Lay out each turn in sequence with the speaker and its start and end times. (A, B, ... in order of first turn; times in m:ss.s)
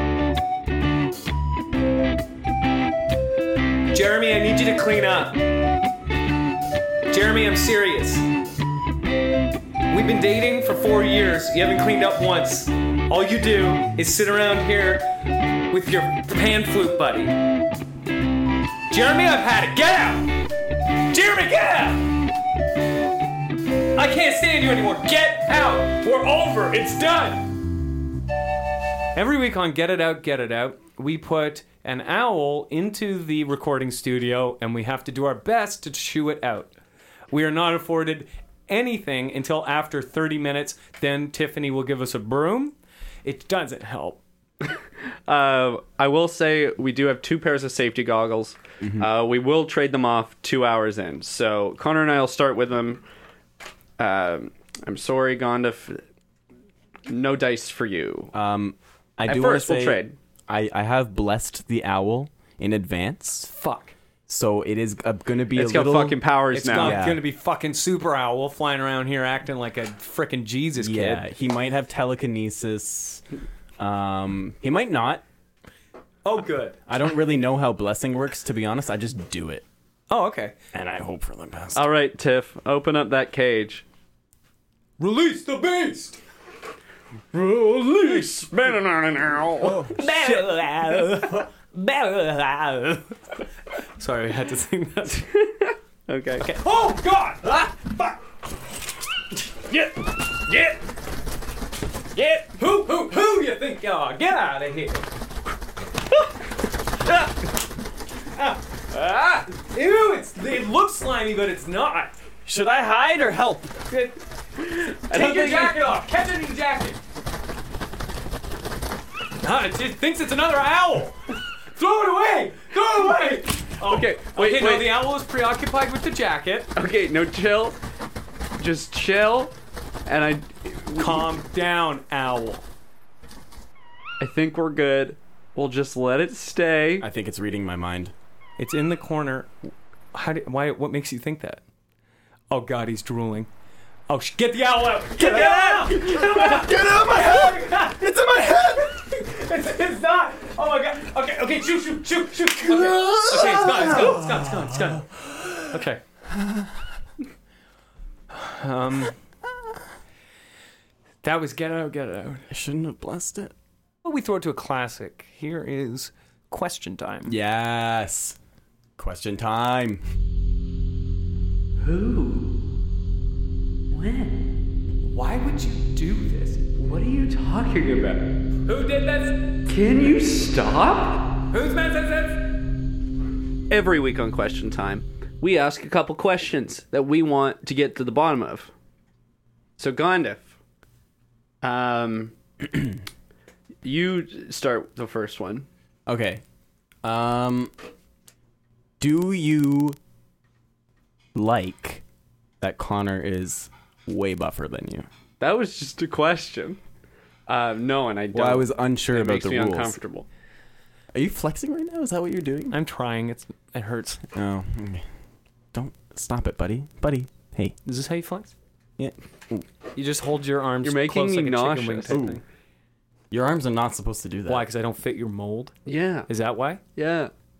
0:03.9-0:05.4 A
0:07.1-0:08.3 A
0:09.9-0:15.1 A
0:15.7-0:17.4 A
0:18.9-0:20.3 A
0:21.1-0:22.0 A
0:23.9-0:27.5 A
0:29.1-0:36.7 A
0:37.3-0:44.2 A
0:45.3-0:53.0 B
0:48.8-0:49.1 C
0:54.0-0:56.0 B
0:57.1-0:58.3 B
0:58.3-1:03.5 C
0:59.2-1:00.1 B
1:03.5-1:03.9 A
1:04.3-1:07.2 C
1:05.5-1:07.0 B
1:06.5-1:11.2 A
1:10.8-1:13.2 C
1:13.8-1:15.2 C
1:16.2-1:16.8 A
1:16.9-1:19.6 C
1:20.1-1:20.5 A
1:20.7-1:21.9 C
1:21.7-1:23.8 B
1:25.0-1:26.2 A
1:27.3-1:28.4 A
1:27.9-1:29.8 B
1:29.6-1:30.6 C
1:29.6-1:33.2 A
1:31.2-1:31.4 C
1:34.0-1:35.3 A
1:35.3-1:36.5 B
1:36.4-1:38.2 A
1:39.7-1:40.8 A
1:42.1-1:45.0 A
1:48.4-1:52.1 A
1:52.4-1:53.7 C
1:53.9-1:54.2 A
1:54.7-1:55.8 B
1:54.9-1:57.0 A
1:59.4-2:01.2 A
2:01.8-2:06.7 A
2:03.8-2:05.0 B
2:06.8-2:07.8 B
2:08.6-2:09.5 B
2:10.0-2:11.2 B
2:11.0-2:12.6 A
2:14.2-2:17.0 B
2:17.0-2:18.1 C
2:18.6-2:19.5 A
2:20.1-2:21.6 A
2:22.5-2:23.5 A
2:24.1-2:35.1 A
2:25.2-2:28.8 C
2:32.6-2:35.7 C
2:35.6-2:36.0 A
2:36.3-2:36.7 C
2:38.3-2:39.1 A
2:41.2-2:42.5 A
2:42.5-2:43.5 C
2:44.0-2:47.3 A
2:47.2-2:48.4 C
2:49.0-2:50.0 C
2:51.8-2:52.5 B
2:53.9-2:54.3 B
2:55.1-2:56.6 A
2:56.7-2:58.3 B
2:58.7-2:59.4 A
2:59.6-3:01.3 B
3:01.5-3:02.4 A
3:03.7-3:08.7 B
3:09.8-3:10.5 B
3:11.6-3:12.3 B
3:13.8-3:15.7 B
3:16.1-3:16.4 C
3:17.0-3:17.7 C
3:19.0-3:20.0 C
3:21.3-3:22.0 C
3:22.6-3:25.1 C
3:25.4-3:26.8 B
3:27.5-3:30.3 B
3:28.3-3:30.0 C
3:31.1-3:32.8 C
3:32.7-3:34.2 A
3:34.3-3:35.0 C
3:35.7-3:37.8 C
3:37.8-3:38.5 A
3:39.0-3:39.6 C
3:39.9-3:42.4 A
3:40.8-3:42.3 B
3:42.1-3:42.4 C
3:43.3-3:44.7 C
3:44.5-3:45.7 A
3:45.8-3:46.3 B
3:46.3-3:46.8 A
3:47.0-3:47.3 B